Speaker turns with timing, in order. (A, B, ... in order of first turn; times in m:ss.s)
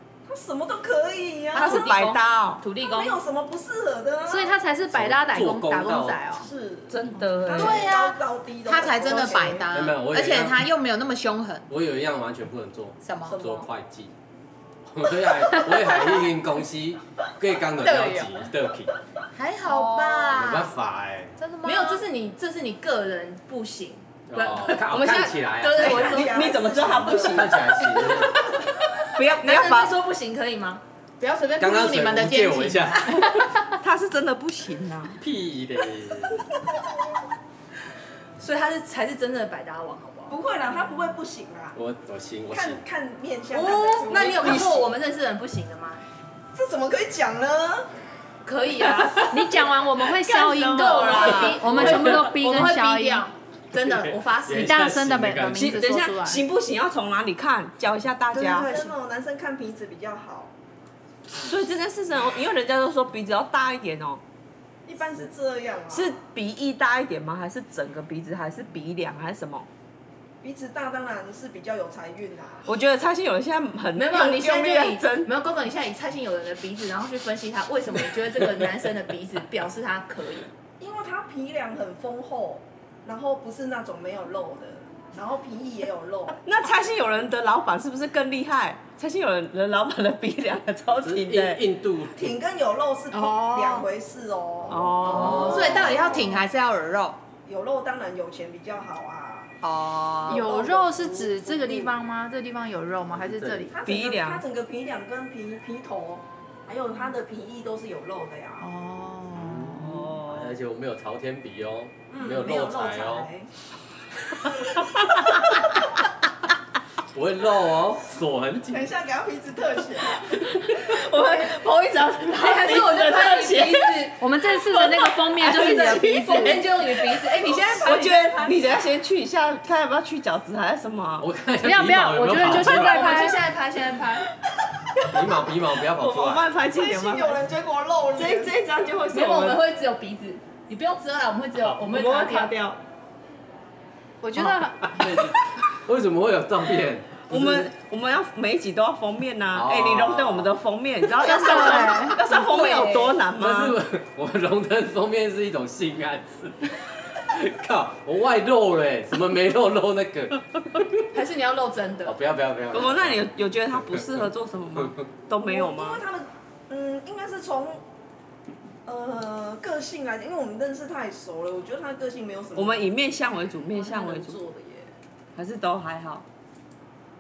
0:00.3-0:01.9 A
0:01.5-0:02.6 B
0:01.6-0:03.2 C
0:02.8-0:04.6 A
0:04.3-0:06.5 D
0:04.9-0:06.3 E
0:06.4-0:09.7 A
0:06.9-0:07.9 B
0:07.5-0:11.7 F
0:09.7-0:10.7 E
0:11.7-0:14.1 E
0:13.0-0:13.5 F
0:14.9-0:18.9 E
0:17.8-0:18.2 F
0:19.4-0:20.7 F
0:20.2-0:21.4 E
0:21.4-0:22.0 F
0:21.6-0:26.5 C
0:24.3-0:28.5 E
0:24.9-0:28.0 B
0:25.7-0:27.7 A
0:29.1-0:30.0 B
0:29.2-0:30.8 C
0:31.2-0:33.6 F
0:31.6-0:33.3 E
0:33.8-0:35.2 B
0:35.2-0:36.4 E
0:38.4-0:40.4 C
0:40.3-0:41.8 A
0:41.8-0:42.8 E
0:42.5-0:44.9 A
0:43.5-0:46.0 C
0:46.5-0:47.9 A
0:48.4-0:49.6 C
0:49.3-0:53.3 D
0:50.2-0:51.8 B
0:50.6-0:54.8 C
0:51.7-0:52.1 E
0:53.8-0:55.8 E
0:54.5-0:56.4 D
0:55.6-0:58.8 B
0:58.3-1:00.5 A
1:01.3-1:04.2 B
1:04.9-1:06.2 A
1:05.9-1:09.7 B
1:10.4-1:12.7 A
1:12.7-1:15.3 B
1:14.0-1:20.5 C
1:20.8-1:26.4 A
1:26.5-1:31.6 B
1:31.0-1:32.4 E
1:32.2-1:36.4 A
1:33.1-1:33.9 F
1:34.7-1:35.8 B
1:34.9-1:35.7 E
1:35.2-1:37.2 F
1:37.4-1:39.6 A
1:39.6-1:40.4 F
1:40.2-1:41.9 A
1:40.3-1:43.7 D
1:43.1-1:43.7 E
1:43.7-1:48.7 A
1:43.9-1:44.4 B
1:48.6-1:50.2 D
1:49.4-1:53.3 E
1:49.8-1:50.5 B
1:52.1-1:53.5 A
1:57.1-1:58.9 E
1:58.7-2:01.5 A
2:00.2-2:04.1 B
2:02.3-2:04.2 C
2:04.2-2:06.6 D
2:05.3-2:07.2 B
2:05.4-2:08.3 C
2:07.3-2:08.8 A
2:07.8-2:11.3 B
2:11.2-2:13.2 E
2:11.6-2:13.4 D
2:12.5-2:14.3 C
2:15.1-2:16.5 E
2:16.0-2:17.4 B
2:16.7-2:18.6 A
2:18.2-2:19.6 B
2:19.1-2:22.6 C
2:21.8-2:22.8 B
2:24.2-2:25.1 D
2:24.8-2:27.7 E
2:27.3-2:33.8 B
2:29.5-2:30.5 E
2:31.2-2:32.3 D
2:32.3-2:33.1 C
2:33.4-2:40.9 E
2:41.1-2:42.2 C
2:42.0-2:44.1 E
2:42.7-2:46.0 B
2:45.4-2:47.8 A
2:48.8-2:52.9 A
2:52.6-2:54.4 B
2:53.7-2:54.9 A
2:55.4-2:56.2 B